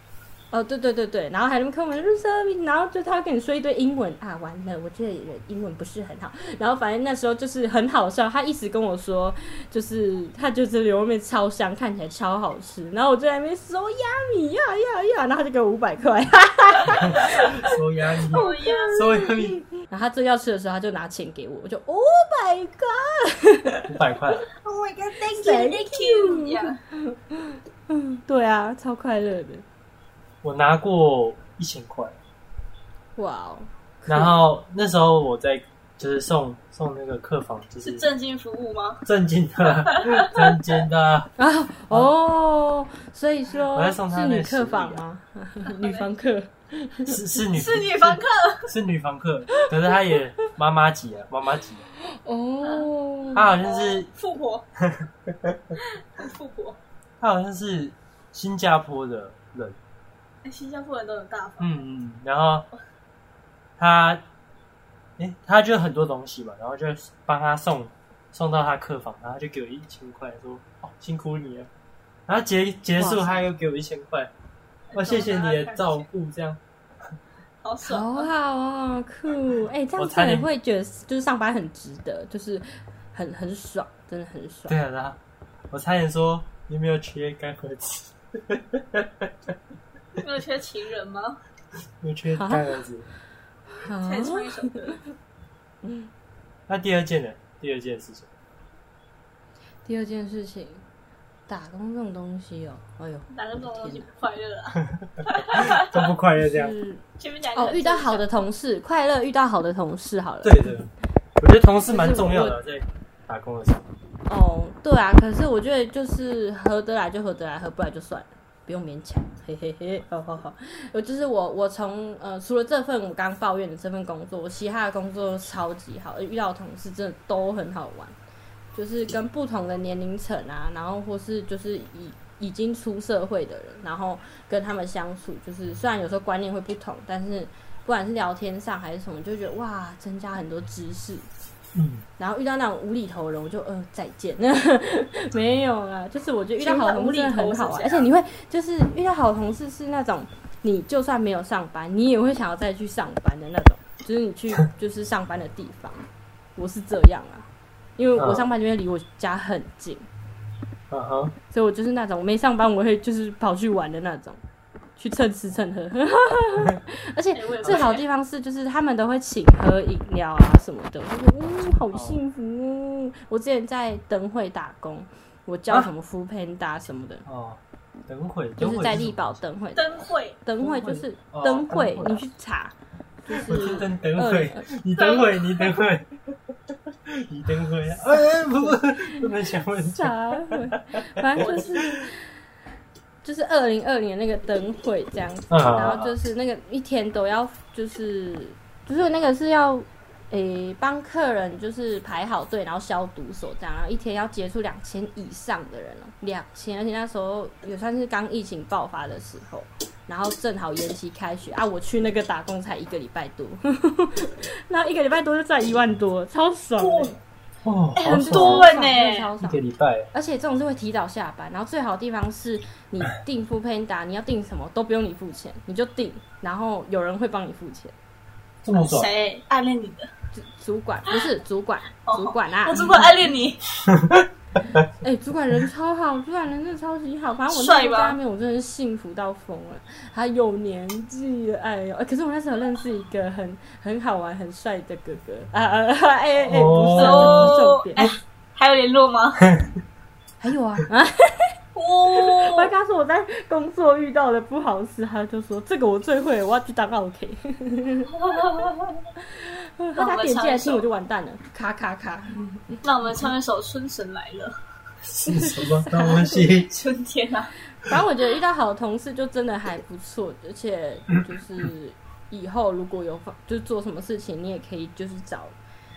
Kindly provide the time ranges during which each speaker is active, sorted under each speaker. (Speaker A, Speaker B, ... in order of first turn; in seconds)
Speaker A: 0.5-17.7, 18.3-23.9, 25.2-29.6, 33.1-34.4, 41.4-47.2, 52.1-53.5, 73.0-73.4, 77.8-84.7, 92.3-92.7, 93.8-94.7, 95.8-96.1, 99.8-100.8, 101.5-104.0, 106.3-107.0, 107.5-110.7, 111.9-112.6, 114.3-128.1, 128.7-141.3, 142.2-160.1, 161.5-164.4, 165.0-177.2, 178.6-184.7, 188.3-189.2, 189.8-192.2, 193.2-217.2, 218.0-219.6, 220.1-227.9, 230.3-233.0, 234.7-248.1, 250.4-251.5, 252.1-258.7, 259.2-262.8, 265.2-266.5, 267.8-275.6
Speaker B: 17.0-19.6, 23.9-24.4, 30.4-32.1, 34.1-38.1, 39.0-41.3, 43.7-45.0, 47.0-51.8, 53.3-54.1, 54.8-55.6, 57.2-59.8, 61.6-62.7, 63.8-64.2, 65.2-71.7, 72.3-74.3, 74.9-76.6, 80.0-80.5, 84.7-85.2, 85.7-89.5, 92.0-93.1, 96.7-98.3, 105.5-106.7, 110.4-113.8, 141.7-142.0, 158.2-158.5, 160.9-161.3, 171.9-172.2, 177.2-179.4, 180.6-182.2, 183.4-186.5, 187.1-192.1, 195.5-196.1, 217.6-218.7, 219.4-220.1, 228.6-229.1, 233.9-234.2, 246.4-248.1, 265.0-266.7
Speaker C: 18.3-19.0, 24.6-26.8, 37.8-39.1, 39.8-40.5, 45.6-46.1, 47.5-48.7, 53.5-54.6, 56.2-56.8, 60.4-61.8, 74.9-76.0, 77.6-78.3, 90.2-91.4, 94.0-95.0, 103.3-105.8, 107.2-108.3, 146.6-148.1, 167.3-168.0, 179.8-180.4, 184.9-185.7, 191.4-191.8, 216.8-217.1, 218.0-219.3, 228.7-230.1, 232.0-233.6, 237.5-238.2, 246.9-249.5, 251.7-252.7, 258.2-259.0, 259.9-260.9, 262.8-264.6, 266.4-267.5